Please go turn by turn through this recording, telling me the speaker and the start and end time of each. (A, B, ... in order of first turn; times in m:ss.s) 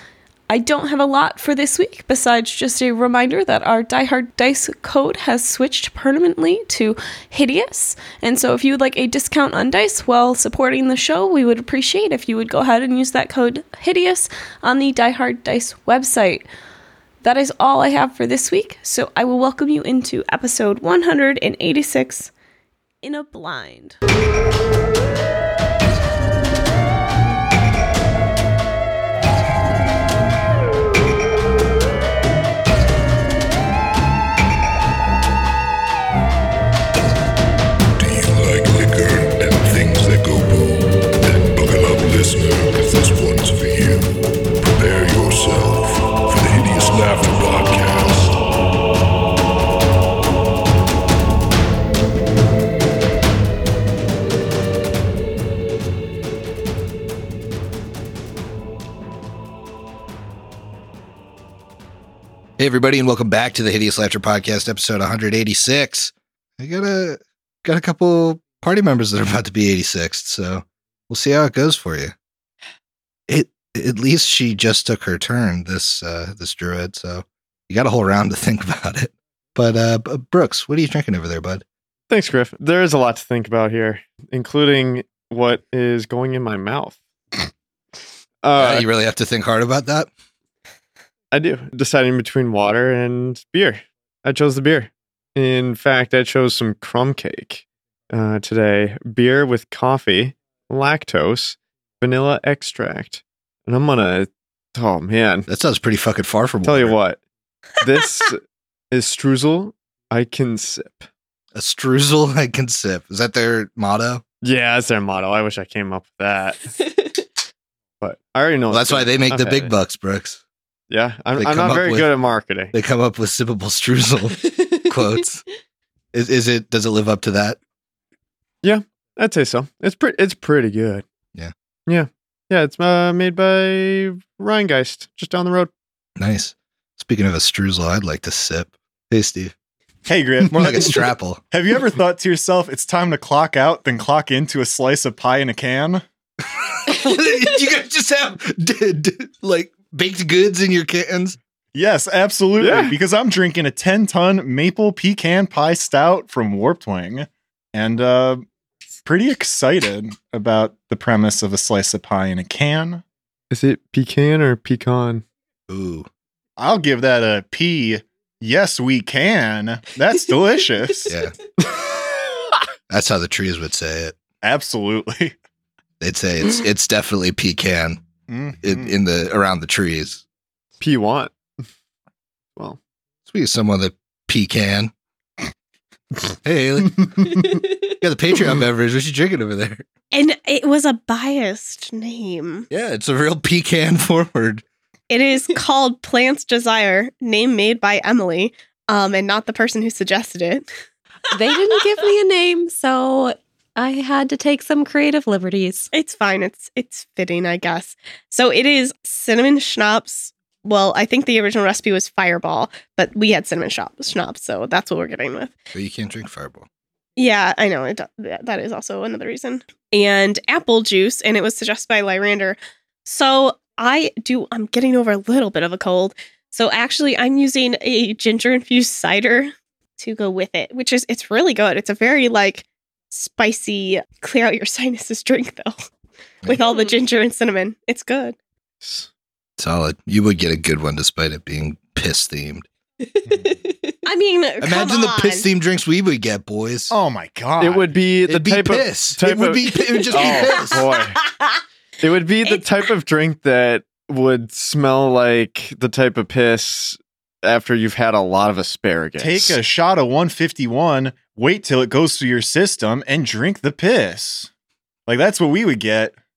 0:00.5-0:16.5 A
0:17.2-0:22.3 A
0:23.0-0:24.0 A
0:38.0-0:48.4 B
1:02.6-1:12.1 C
1:13.3-1:21.6 C
1:22.1-1:27.5 D
1:28.4-1:28.9 D
1:28.5-1:30.1 C
1:31.3-1:45.5 D
1:45.5-1:47.0 C
1:46.6-1:47.2 D
1:47.8-1:51.1 D
1:51.5-1:54.2 C
1:54.4-1:56.7 D
1:58.0-1:59.7 D
1:58.7-2:00.4 C
2:00.9-2:02.7 D
2:01.4-2:02.1 C
2:02.7-2:05.4 C
2:06.1-2:07.6 C
2:08.6-2:11.0 D
2:11.9-2:15.7 D
2:16.2-2:19.5 C
2:20.1-2:21.0 E
2:20.5-2:21.4 C
2:21.5-2:26.0 E
2:26.7-2:31.4 C
2:31.7-2:38.4 E
2:32.6-2:33.0 D
2:39.0-2:43.0 E
2:43.5-2:45.2 D
2:45.7-2:46.1 C
2:46.6-2:51.2 E
2:51.1-2:51.3 C
2:52.9-2:54.2 C
2:54.4-2:55.4 E
2:56.0-2:58.0 C
2:58.3-2:58.9 E
2:58.6-3:00.2 C
3:00.8-3:01.4 D
3:03.3-3:04.9 C
3:06.4-3:09.8 C
3:10.1-3:12.7 F
3:12.7-3:14.6 C
3:15.1-3:20.7 F
3:21.3-3:25.9 G
3:25.9-3:35.6 F
3:35.7-3:36.7 C
3:37.2-3:55.8 F
3:56.5-3:58.4 F
3:58.8-3:59.1 D
3:59.6-4:02.7 C
4:04.0-4:05.5 F
4:04.6-4:06.9 C
4:06.9-4:07.9 E
4:07.6-4:11.2 D
4:08.3-4:10.9 C
4:12.0-4:19.6 D
4:19.2-4:24.5 E
4:25.1-4:26.2 E